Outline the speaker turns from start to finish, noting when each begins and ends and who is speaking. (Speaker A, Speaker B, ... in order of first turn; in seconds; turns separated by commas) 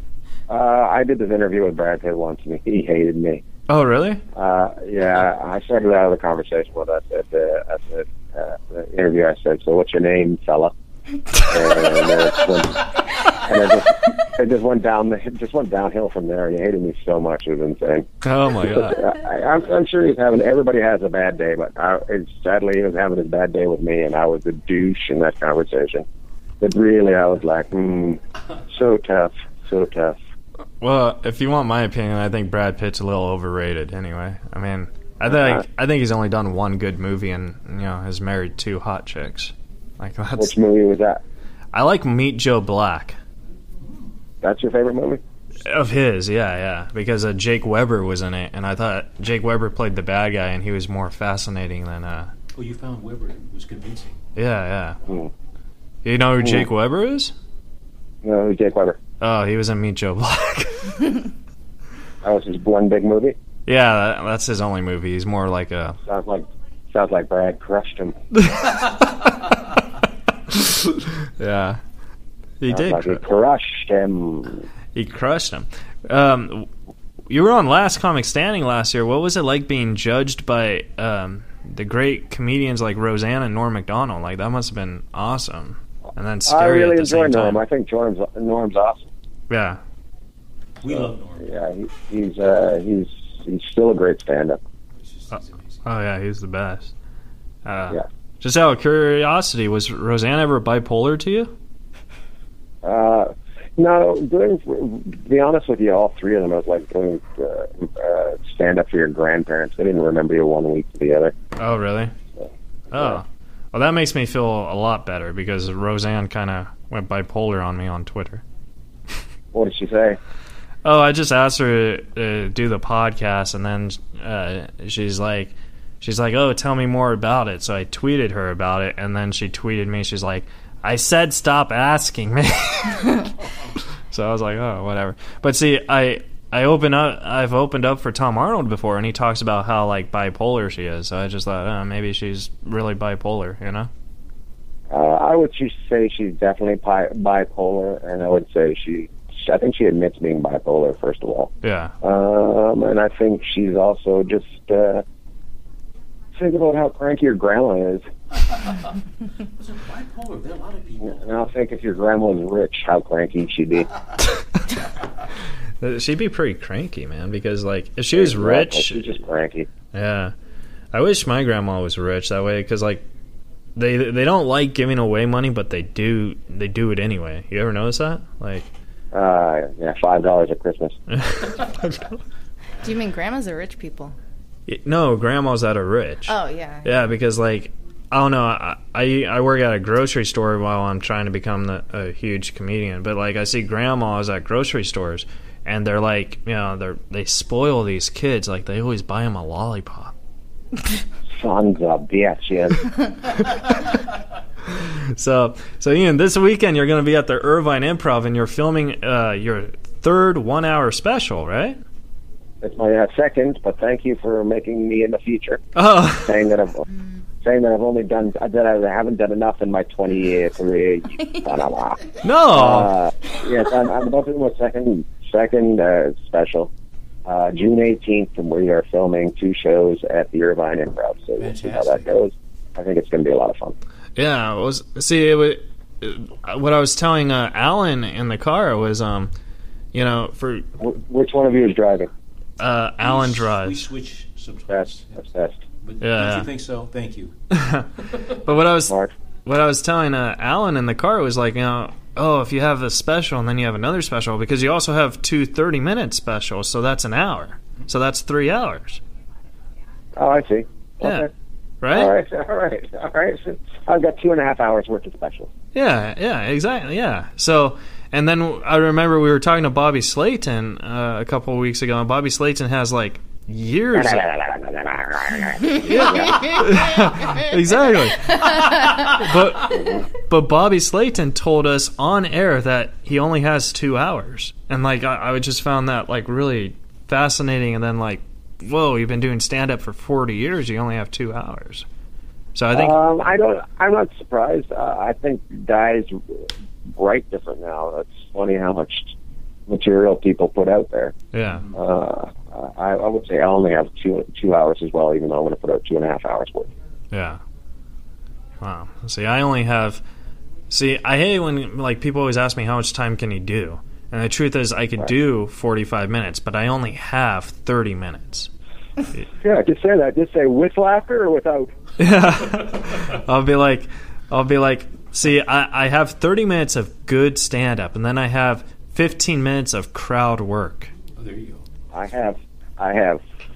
Speaker A: 0.5-3.4, Speaker B: 3.7-4.2, Speaker A: 4.3-10.7, Speaker A: 11.4-18.1, Speaker B: 18.2-19.0, Speaker A: 18.6-26.1, Speaker A: 26.6-30.2, Speaker B: 30.8-40.5, Speaker A: 35.2-35.6, Speaker A: 40.4-41.2, Speaker B: 41.7-43.2, Speaker C: 43.8-44.1, Speaker A: 44.4-45.2, Speaker B: 45.6-52.3, Speaker C: 52.5-54.2, Speaker B: 54.4-55.0, Speaker B: 56.0-57.4, Speaker A: 56.4-56.7, Speaker A: 58.2-59.0, Speaker B: 59.2-61.2, Speaker A: 62.2-63.4, Speaker B: 63.7-66.0, Speaker A: 66.0-68.2, Speaker B: 68.4-69.3, Speaker B: 70.5-71.8, Speaker B: 72.6-73.2, Speaker A: 72.7-74.7, Speaker B: 74.9-76.7, Speaker B: 77.3-87.6, Speaker A: 86.5-89.1, Speaker B: 89.5-89.8, Speaker C: 90.8-91.5, Speaker A: 90.8-94.6, Speaker C: 95.0-95.8, Speaker B: 95.8-96.9, Speaker B: 97.6-101.5, Speaker A: 102.8-111.3, Speaker B: 111.6-112.1, Speaker A: 112.3-113.2, Speaker B: 112.9-118.4, Speaker A: 119.5-120.2, Speaker B: 120.8-133.3, Speaker B: 134.1-143.9, Speaker A: 144.9-155.0, Speaker B: 151.6-151.9, Speaker A: 156.3-158.1, Speaker C: 159.6-161.5, Speaker A: 161.0-163.9, Speaker B: 165.8-169.1, Speaker A: 168.1-169.7, Speaker B: 169.9-170.3, Speaker B: 170.9-173.1, Speaker B: 173.8-178.7, Speaker A: 179.1-181.3, Speaker B: 181.1-182.2, Speaker D: 182.8-184.1, Speaker B: 184.7-186.3, Speaker D: 186.3-186.9, Speaker B: 186.8-200.1, Speaker A: 201.3-202.9, Speaker B: 203.5-203.8, Speaker B: 204.7-211.8, Speaker A: 212.6-216.8, Speaker B: 215.8-216.4, Speaker A: 217.4-226.7, Speaker B: 222.2-222.9, Speaker A: 227.2-233.8, Speaker C: 231.4-232.1, Speaker B: 234.2-239.3, Speaker B: 239.9-240.7, Speaker A: 240.8-242.1, Speaker B: 242.6-243.8, Speaker C: 243.0-245.2, Speaker A: 244.7-245.6, Speaker C: 245.8-247.3, Speaker B: 246.0-246.5, Speaker B: 247.5-248.9, Speaker A: 248.9-249.1, Speaker B: 249.4-259.0, Speaker A: 260.1-261.3, Speaker B: 261.8-262.1, Speaker A: 261.9-265.5, Speaker B: 265.7-274.2, Speaker A: 273.9-276.8, Speaker B: 275.7-291.9, Speaker B: 292.6-292.9, Speaker A: 292.7-299.1, Speaker A: 299.7-301.1, Speaker B: 301.3-301.7, Speaker A: 301.7-306.7, Speaker B: 307.1-307.4, Speaker B: 308.6-310.0, Speaker B: 310.7-318.5, Speaker A: 319.3-321.7, Speaker B: 322.0-330.9, Speaker C: 331.2-331.6, Speaker A: 331.9-333.2